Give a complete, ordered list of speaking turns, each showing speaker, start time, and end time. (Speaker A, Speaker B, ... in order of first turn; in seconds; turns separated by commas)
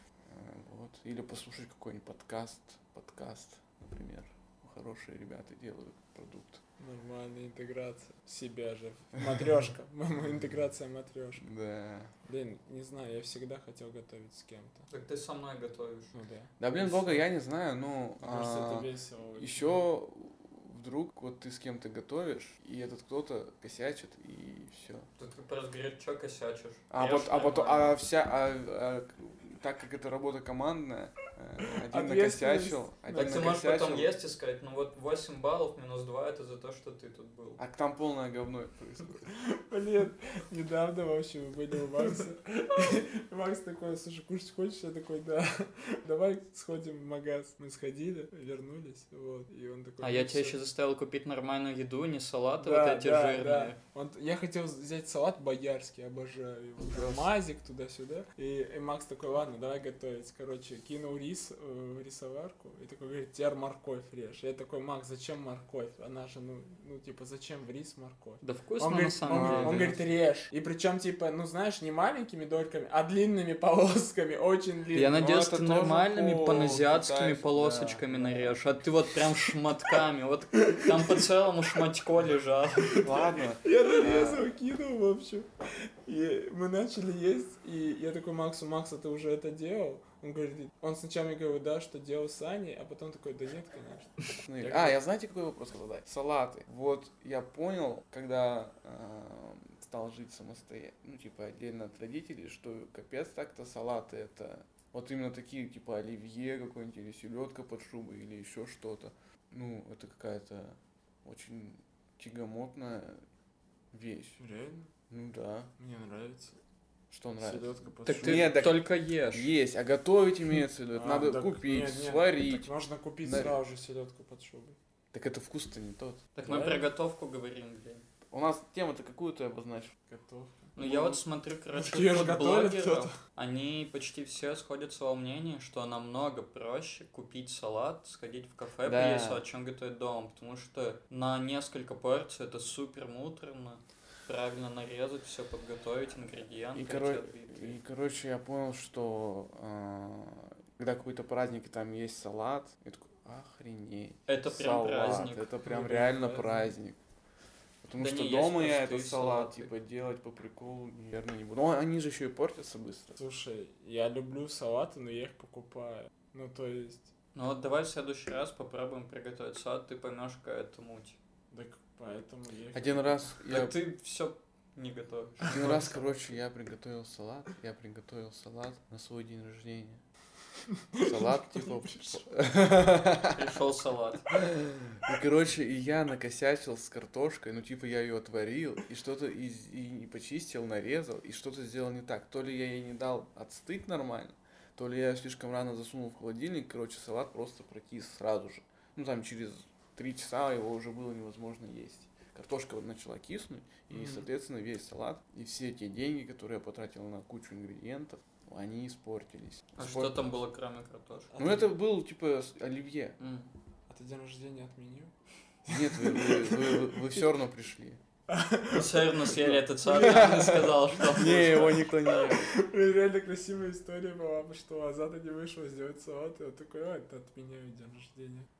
Speaker A: 0.2-6.6, Speaker B: 6.8-11.5, Speaker A: 11.4-12.1, Speaker B: 12.2-14.9, Speaker C: 14.9-16.1, Speaker B: 16.1-17.1, Speaker A: 16.6-25.1, Speaker B: 18.2-19.8, Speaker C: 25.2-28.0, Speaker A: 26.9-34.1, Speaker B: 31.9-33.5, Speaker C: 33.1-37.6, Speaker A: 37.6-39.3, Speaker B: 39.3-50.6, Speaker C: 50.0-53.8, Speaker B: 52.6-75.2, Speaker A: 56.9-57.3, Speaker C: 68.4-70.0, Speaker A: 69.3-70.0, Speaker C: 74.9-83.3, Speaker A: 75.1-78.8, Speaker A: 82.9-84.5, Speaker B: 83.6-95.0, Speaker A: 94.5-113.2, Speaker A: 113.9-114.4, Speaker B: 114.4-114.9, Speaker A: 115.1-115.7, Speaker B: 115.8-116.6, Speaker A: 117.1-122.7, Speaker B: 117.4-118.6, Speaker C: 118.0-119.5, Speaker B: 120.9-124.8, Speaker A: 123.2-123.5, Speaker A: 125.1-126.3, Speaker C: 126.3-128.1, Speaker B: 126.4-126.9, Speaker A: 128.3-130.0, Speaker B: 130.1-130.7, Speaker A: 130.8-131.2, Speaker C: 130.8-147.8, Speaker B: 131.7-133.2, Speaker A: 138.8-139.4, Speaker A: 146.7-157.0, Speaker C: 154.3-155.5, Speaker B: 155.6-156.7, Speaker A: 157.8-163.2, Speaker C: 158.0-159.7, Speaker B: 163.2-167.1, Speaker C: 167.3-171.2, Speaker B: 171.5-173.3, Speaker A: 172.7-173.7, Speaker C: 173.4-175.7, Speaker B: 175.4-176.3, Speaker A: 175.5-180.0, Speaker B: 180.9-182.2, Speaker A: 181.0-183.6, Speaker C: 183.3-184.3, Speaker A: 184.3-210.3, Speaker B: 203.9-204.2, Speaker C: 209.8-211.3, Speaker B: 211.3-211.7, Speaker A: 211.4-213.2, Speaker C: 213.2-213.5, Speaker B: 213.9-215.1, Speaker B: 215.6-217.1, Speaker A: 215.7-218.0, Speaker B: 218.3-221.2, Speaker C: 218.7-221.9, Speaker A: 219.8-222.5, Speaker B: 222.4-228.5